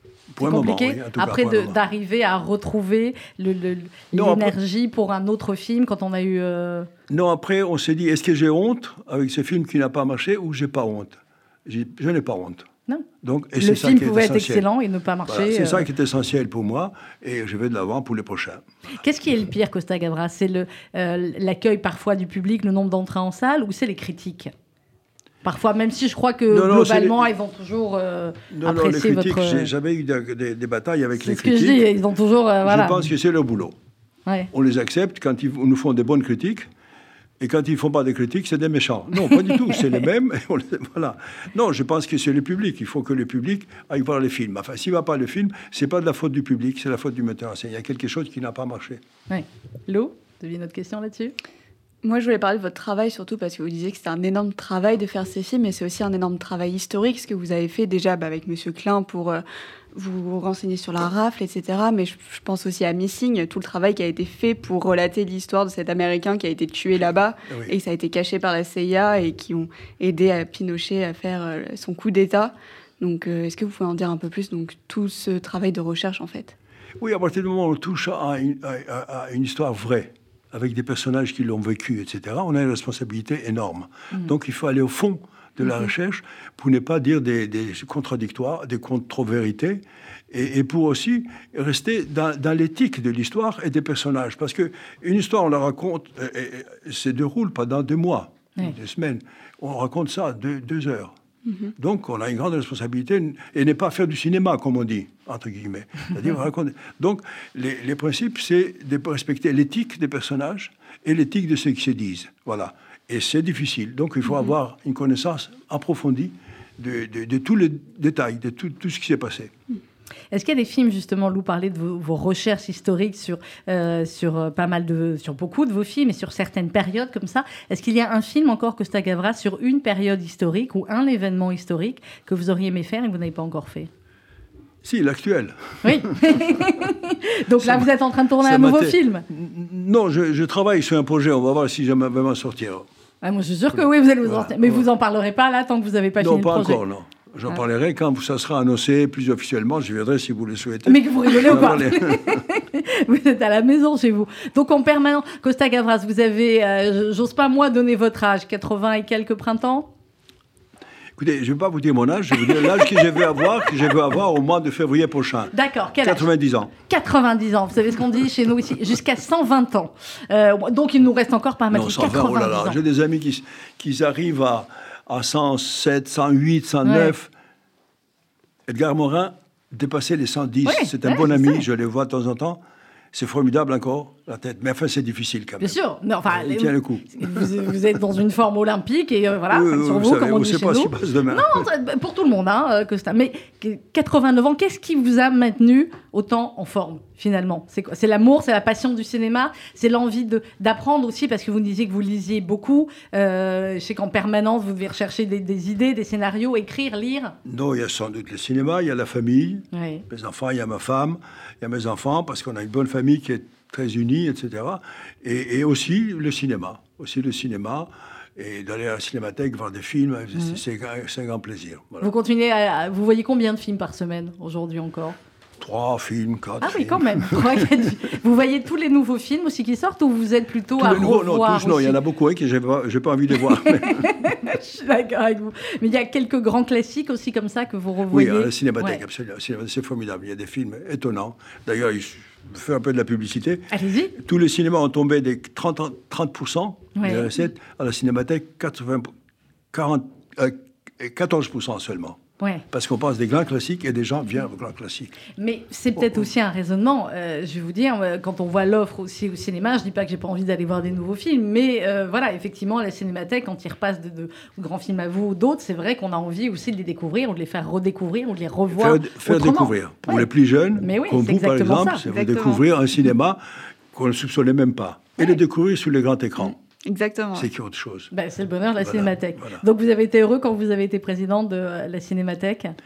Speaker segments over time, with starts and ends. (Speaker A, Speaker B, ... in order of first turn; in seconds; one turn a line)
Speaker A: 0.3-1.8
Speaker B: 0.4-6.9
Speaker A: 4.1-4.5
Speaker A: 7.1-12.7
Speaker A: 13.2-14.6
Speaker B: 13.6-15.9
Speaker A: 15.3-18.6
Speaker B: 19.0-24.5
Speaker B: 25.4-29.7
Speaker A: 26.5-27.3
Speaker A: 28.5-31.9
Speaker B: 31.2-33.0
Speaker A: 32.6-33.8
Speaker A: 34.5-36.7
Speaker A: 37.4-49.0
Speaker B: 39.4-39.7
Speaker B: 49.3-51.3
Speaker C: 52.0-59.4
Speaker C: 59.9-76.5
Speaker A: 67.5-67.7
Speaker A: 77.0-101.1
Speaker C: 101.5-101.7
Speaker A: 101.8-119.5
Speaker B: 120.3-133.9
Speaker A: 134.8-136.4
Speaker B: 135.8-139.2
Speaker A: 137.6-142.8
Speaker B: 143.2-146.8
Speaker A: 144.2-144.8
Speaker A: 146.2-152.4
Speaker B: 150.8-159.9
Speaker A: 161.2-166.7
Speaker B: 165.5-172.8
Speaker A: 171.7-177.3
Speaker B: 176.8-177.1
Speaker A: 178.7-182.6
Speaker B: 180.6-181.6
Speaker A: 183.1-187.5
Speaker B: 185.6-207.3
Speaker A: 189.5-191.7
Speaker A: 207.4-222.1
Speaker B: 209.7-210.0
Speaker B: 222.0-225.2
Speaker A: 225.6-227.8
Speaker B: 226.6-232.0
Speaker A: 230.8-234.1
Speaker B: 233.8-239.0
Speaker A: 238.1-249.1
Speaker B: 243.7-244.1
Speaker B: 246.9-247.2
Speaker A: 249.7-252.2
Speaker A: 252.7-255.2
Speaker B: 255.4-270.2
Speaker A: 255.9-256.3
Speaker A: 268.7-273.4
Speaker B: 270.8-272.0
Speaker C: 272.1-272.6
Speaker A: 273.9-276.5
Speaker C: 276.5-277.5
Speaker A: 277.3-278.1
Speaker B: 278.1-282.7
Speaker A: 278.8-279.6